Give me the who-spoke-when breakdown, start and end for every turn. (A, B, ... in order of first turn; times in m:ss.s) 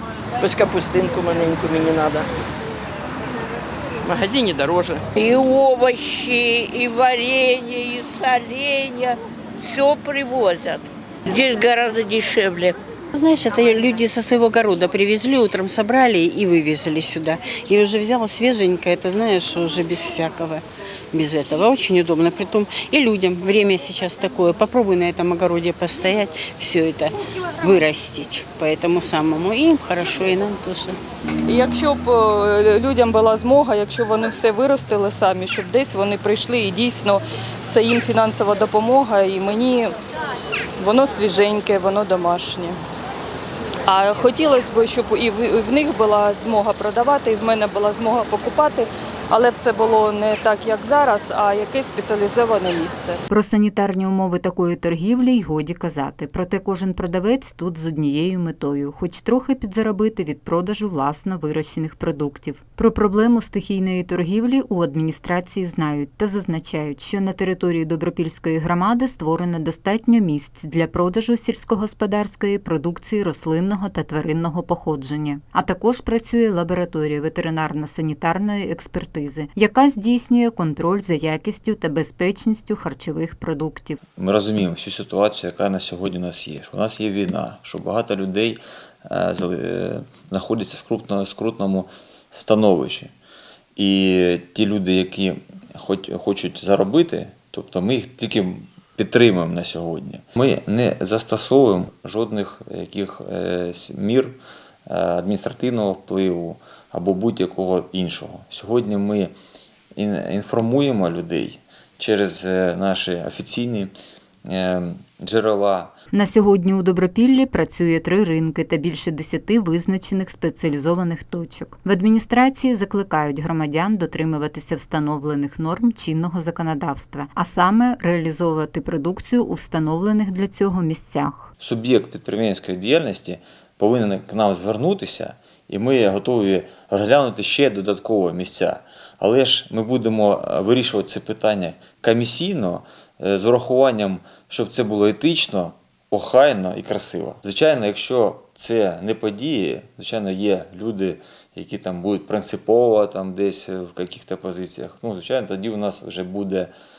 0:00.4-0:02.3 A
0:04.0-0:05.0 A
0:05.2-0:12.8 B
0:13.1-0:31.0 C
0:31.4-0:39.9 D
0:40.8-0:42.8 D
0:43.8-0:53.2 D
0:53.3-1:24.0 E
1:24.2-1:33.1 F
1:33.8-1:49.3 F
1:49.9-1:53.9 F
1:54.5-1:55.9 F
1:56.1-2:11.5 E
2:11.6-2:36.7 F